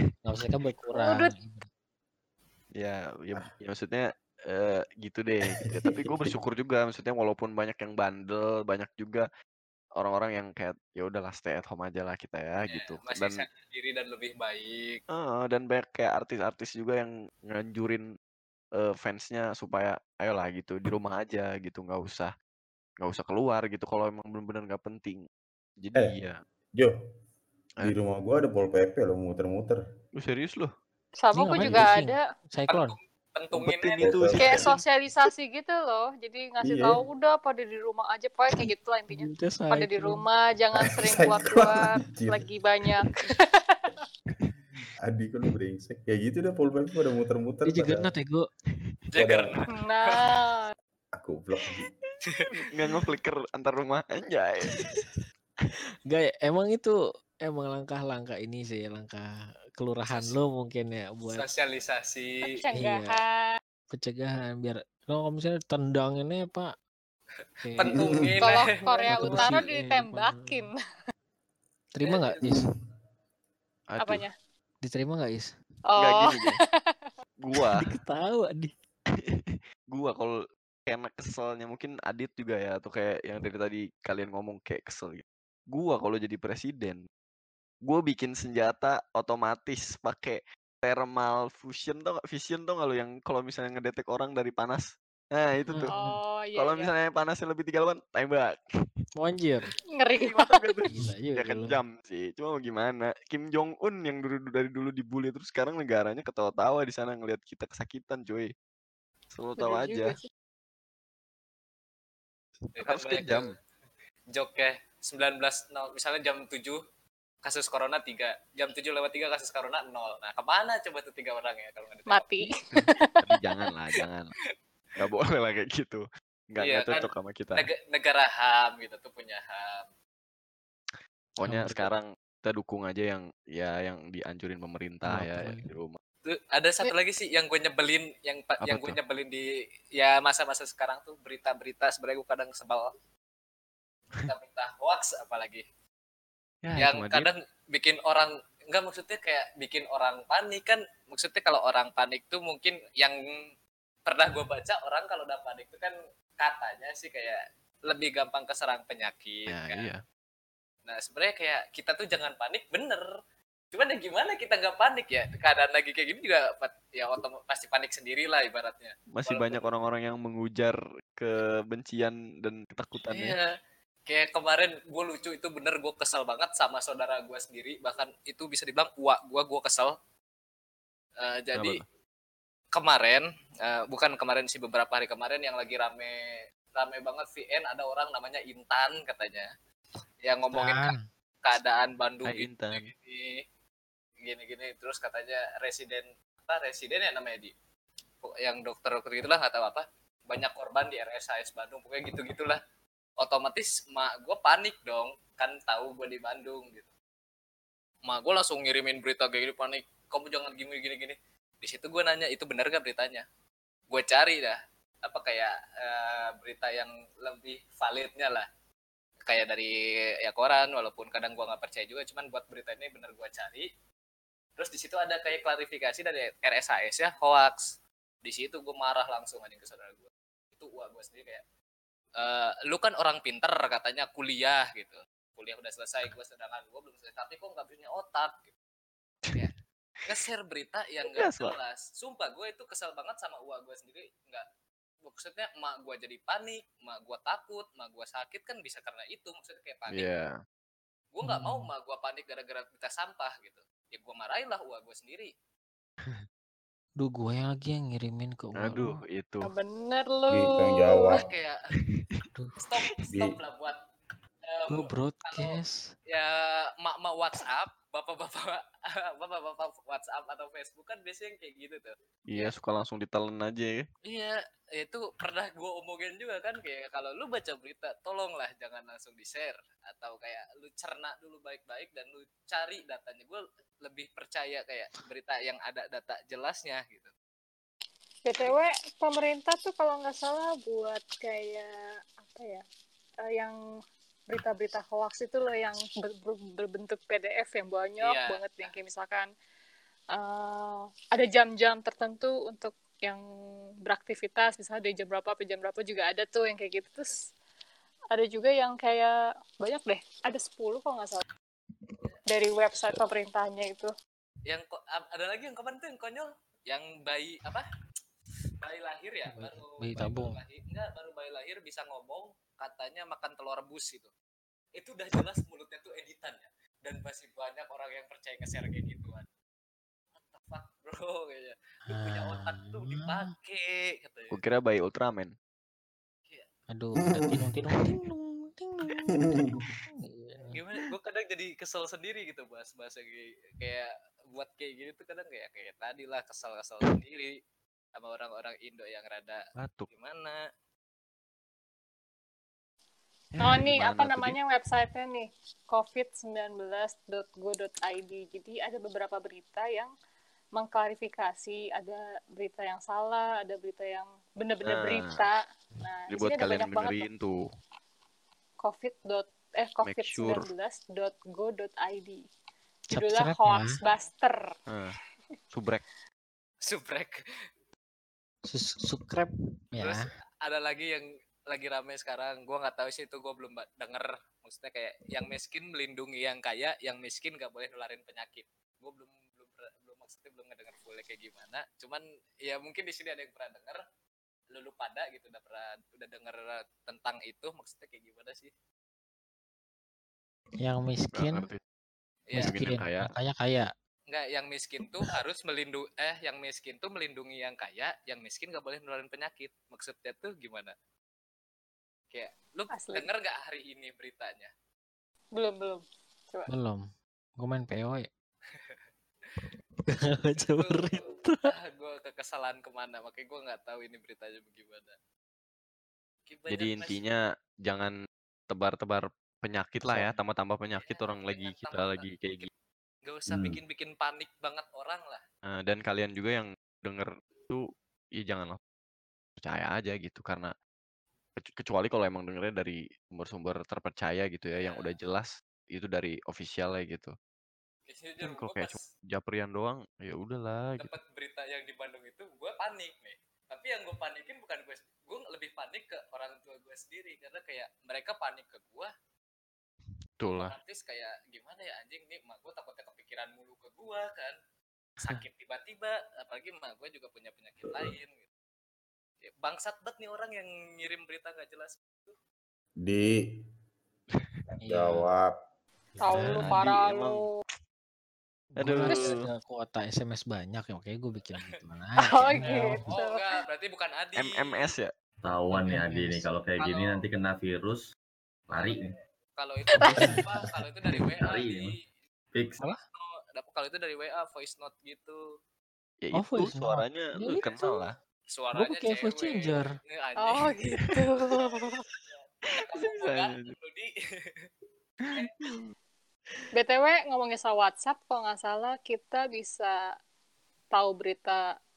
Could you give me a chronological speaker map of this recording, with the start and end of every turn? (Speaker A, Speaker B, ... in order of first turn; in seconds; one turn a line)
Speaker A: 0.2-1.7
Speaker B: 0.9-1.3
Speaker C: 2.8-9.2
Speaker D: 5.7-6.3
Speaker C: 10.0-13.4
Speaker E: 12.7-15.0
Speaker C: 15.1-18.0
Speaker C: 18.8-22.3
Speaker C: 23.0-25.2
Speaker C: 25.8-26.4
Speaker D: 27.8-29.8
Speaker C: 30.2-30.7
Speaker B: 31.2-32.3
Speaker A: 31.3-32.9
Speaker E: 32.7-34.0
Speaker C: 33.5-34.7
Speaker D: 34.0-34.7
Speaker B: 34.4-43.9
Speaker D: 36.6-37.0
Speaker A: 39.1-40.2
Speaker D: 40.7-42.5
Speaker D: 45.0-48.1
Speaker A: 47.6-48.5
Speaker E: 49.1-50.3
Speaker D: 49.1-49.6
Speaker B: 49.7-50.7
Speaker D: 51.2-51.9
Speaker C: 52.7-55.1
Speaker A: 56.0-61.5
Speaker E: 60.1-60.3
Speaker E: 61.3-62.4
Speaker B: 62.5-63.6
Speaker A: 62.7-63.2
Speaker A: 63.9-66.7
Speaker E: 67.4-69.6
Speaker A: 67.6-68.1
Speaker D: 67.8-68.4
Speaker B: 68.4-70.8
Speaker A: 69.1-70.7
Speaker A: 71.9-72.7
Speaker E: 72.0-72.4
Speaker C: 73.9-74.2
Speaker B: 74.0-74.3
Speaker A: 74.8-75.5
Speaker B: 75.9-77.1
Speaker C: 76.0-76.6
Speaker C: 77.4-77.8
Speaker A: 77.8-78.7
Speaker C: 79.2-80.3
Speaker C: 80.9-87.0
Speaker C: 87.8-95.9
Speaker A: 95.7-96.2
Speaker B: 95.9-96.9
Speaker C: 96.5-98.6
Speaker A: 99.2-99.7
Speaker B: 99.9-100.8
Speaker C: 100.2-108.5
Speaker A: 100.9-101.8
Speaker C: 109.3-110.2
Speaker B: 109.6-110.3
Speaker C: 112.7-113.5
Speaker E: 112.8-113.5
Speaker E: 114.3-116.8
Speaker E: 117.4-122.4
Speaker B: 122.1-123.4
Speaker C: 123.2-124.3
Speaker C: 125.0-127.7
Speaker E: 126.6-129.9
Speaker C: 131.4-136.0
Speaker A: 131.4-131.9
Speaker A: 135.1-135.7
Speaker E: 136.2-142.9
Speaker C: 138.6-139.0
Speaker E: 144.2-145.6
Speaker C: 146.6-147.3
Speaker E: 146.8-153.2
Speaker E: 154.1-159.9
Speaker C: 159.5-160.0
Speaker E: 160.8-163.1
Speaker E: 163.7-169.8
Speaker C: 169.1-173.3
Speaker E: 173.1-173.4
Speaker E: 174.1-179.9
Speaker E: 181.2-181.8
Speaker C: 181.5-181.8
Speaker E: 182.7-186.1
Speaker E: 186.8-189.5
Speaker E: 190.2-193.4
Speaker A: 190.5-191.0
Speaker C: 192.2-192.9
Speaker E: 194.2-197.5
Speaker E: 198.2-202.6
Speaker E: 203.2-206.9
Speaker E: 208.1-213.2
Speaker E: 213.9-218.5
Speaker E: 219.3-223.7
Speaker E: 224.6-227.7
Speaker E: 228.2-231.4
Speaker E: 232.2-238.5
Speaker E: 240.1-244.5
Speaker C: 241.1-241.6
Speaker E: 245.0-250.1
Speaker C: 249.9-250.3
Speaker E: 251.1-255.3
Speaker A: 251.2-251.7
Speaker A: 257.0-258.9
Speaker C: 258.6-259.5
Speaker B: 259.4-261.2
Speaker D: 260.3-261.2
Speaker E: 261.1-261.6
Speaker E: 262.6-263.8
Speaker D: 263.1-263.4
Speaker E: 264.4-272.5
Speaker A: 264.7-265.8
Speaker C: 272.3-273.8
Speaker E: 274.0-287.1
Speaker B: 288.2-291.7
Speaker B: 292.2-292.6
Speaker B: 293.2-293.6
Speaker B: 294.3-299.3
Speaker E: 298.0-298.7
Speaker B: 300.1-303.2
Speaker B: 303.8-307.2
Speaker B: 308.1-311.2
Speaker B: 312.2-313.9
Speaker E: 314.4-317.7
Speaker E: 318.6-324.1
Speaker A: 319.3-320.4
Speaker E: 324.7-329.3
Speaker E: 330.1-334.4
Speaker A: 331.9-333.2
Speaker C: 334.3-335.3
Speaker A: 336.7-340.5
Speaker D: 337.0-337.4
Speaker D: 339.1-339.6
Speaker E: 340.5-347.3
Speaker E: 347.9-350.4
Speaker C: 349.6-349.9
Speaker C: 353.3-354.4
Speaker B: 353.4-359.9
Speaker B: 360.5-367.1
Speaker C: 364.6-365.1
Speaker C: 366.1-367.4
Speaker B: 368.6-372.2
Speaker C: 369.8-370.4
Speaker B: 372.9-374.5
Speaker A: 372.9-373.7
Speaker C: 374.7-374.9
Speaker C: 375.5-375.8
Speaker E: 376.6-377.2
Speaker A: 378.4-380.0
Speaker E: 379.8-393.8
Speaker E: 394.5-398.5
Speaker A: 400.6-401.5
Speaker C: 401.1-401.6
Speaker E: 402.3-402.6
Speaker C: 402.4-403.1
Speaker A: 402.4-403.7
Speaker E: 404.1-410.7
Speaker E: 412.1-414.5
Speaker B: 412.7-413.1
Speaker B: 415.4-416.5
Speaker A: 416.5-416.8
Speaker A: 417.4-418.1
Speaker E: 418.5-418.8
Speaker A: 419.9-421.4
Speaker E: 420.4-424.9
Speaker E: 426.2-427.0
Speaker C: 426.5-427.9
Speaker C: 428.5-432.5
Speaker A: 429.8-430.1
Speaker E: 430.8-432.5
Speaker E: 433.0-435.2
Speaker F: 433.3-433.6
Speaker C: 435.4-437.6
Speaker C: 438.2-438.6
Speaker C: 439.4-440.5
Speaker C: 441.4-447.1
Speaker E: 444.6-444.9
Speaker E: 447.9-448.9
Speaker C: 448.2-450.9
Speaker E: 450.8-458.9
Speaker C: 460.2-460.6
Speaker E: 460.4-464.4
Speaker E: 465.0-468.2
Speaker D: 467.6-467.9
Speaker E: 469.2-472.1
Speaker D: 472.8-473.3
Speaker A: 474.6-475.0
Speaker D: 474.6-475.3
Speaker B: 476.0-477.3
Speaker A: 476.0-476.6
Speaker C: 476.3-477.2
Speaker A: 478.6-482.8
Speaker C: 478.6-479.3
Speaker B: 478.9-479.2
Speaker B: 482.0-483.3
Speaker E: 482.3-484.7
Speaker C: 484.1-484.9
Speaker F: 485.2-487.8
Speaker A: 485.5-486.2
Speaker E: 486.6-487.1
Speaker F: 488.5-488.9
Speaker E: 489.4-491.9
Speaker B: 489.7-490.2
Speaker F: 489.9-490.3
Speaker F: 490.9-491.7
Speaker F: 492.3-492.6
Speaker E: 492.9-495.2
Speaker C: 496.0-497.9
Speaker A: 496.1-497.6
Speaker E: 498.3-500.6
Speaker A: 498.5-499.7
Speaker B: 500.2-501.8
Speaker C: 500.7-500.9
Speaker E: 502.5-504.5
Speaker C: 502.7-503.5
Speaker C: 505.1-505.6
Speaker B: 506.5-509.8
Speaker B: 510.7-511.4